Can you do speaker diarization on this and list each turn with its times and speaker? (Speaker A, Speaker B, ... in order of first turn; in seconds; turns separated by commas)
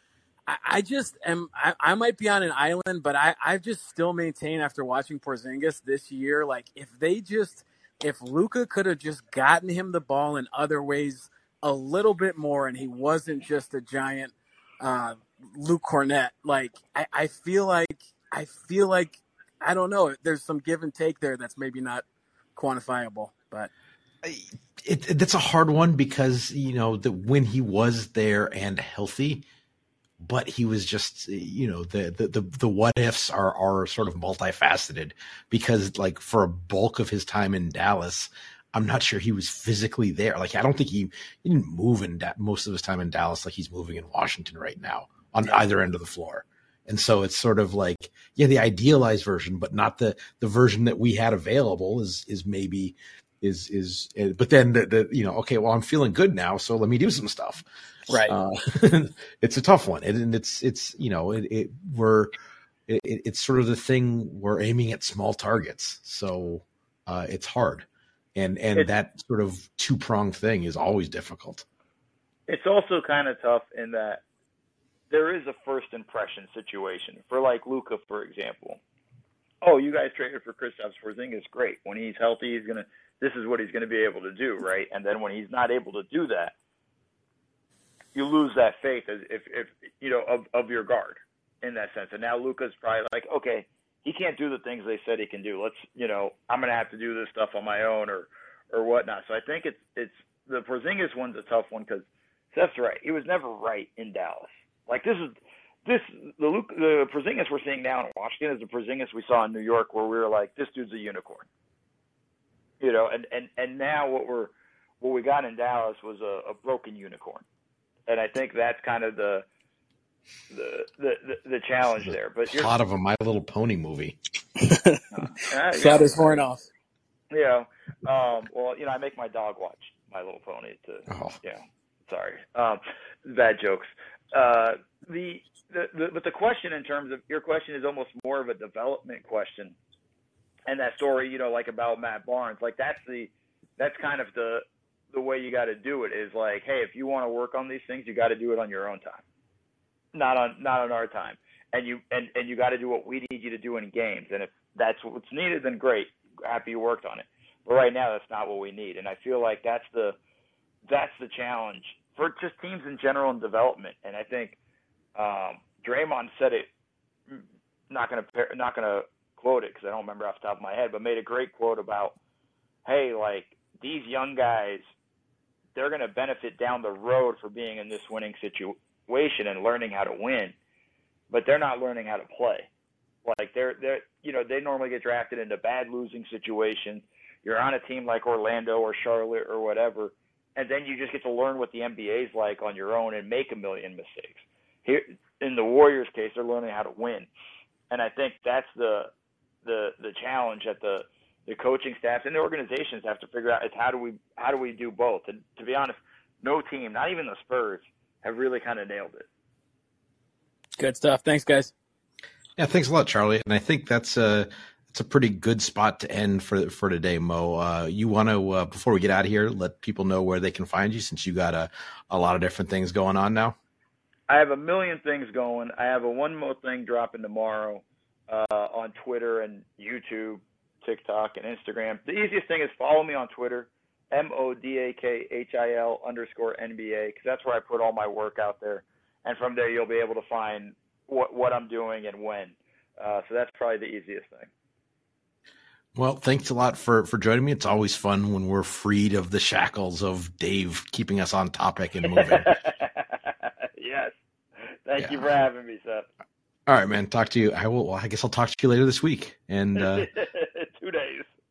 Speaker A: 0.5-22.0, Speaker A: 22.6-23.7, Speaker B: 24.2-29.4, Speaker B: 30.2-57.6, Speaker A: 58.1-58.4, Speaker B: 58.2-62.3, Speaker B: 62.9-71.6, Speaker C: 72.5-74.2, Speaker C: 75.1-78.8, Speaker C: 79.6-86.5, Speaker C: 88.1-111.5, Speaker C: 112.8-117.4, Speaker C: 118.1-119.5, Speaker C: 120.5-122.7, Speaker B: 122.0-124.2, Speaker A: 124.6-126.7, Speaker C: 125.1-126.5, Speaker C: 127.3-139.8, Speaker B: 131.1-131.4, Speaker C: 140.7-149.2, Speaker C: 150.1-160.2, Speaker C: 160.9-164.6, Speaker C: 165.2-166.7, Speaker C: 167.3-172.2, Speaker C: 172.8-174.9, Speaker C: 175.7-180.5, Speaker C: 181.3-182.7, Speaker C: 183.2-197.3, Speaker C: 197.9-199.1, Speaker C: 199.6-209.3, Speaker A: 210.8-211.7, Speaker B: 212.6-223.6, Speaker C: 224.3-244.5, Speaker B: 245.9-252.5, Speaker C: 252.1-254.1, Speaker C: 254.8-256.1, Speaker B: 255.0-255.2, Speaker B: 256.7-260.1, Speaker C: 259.8-261.3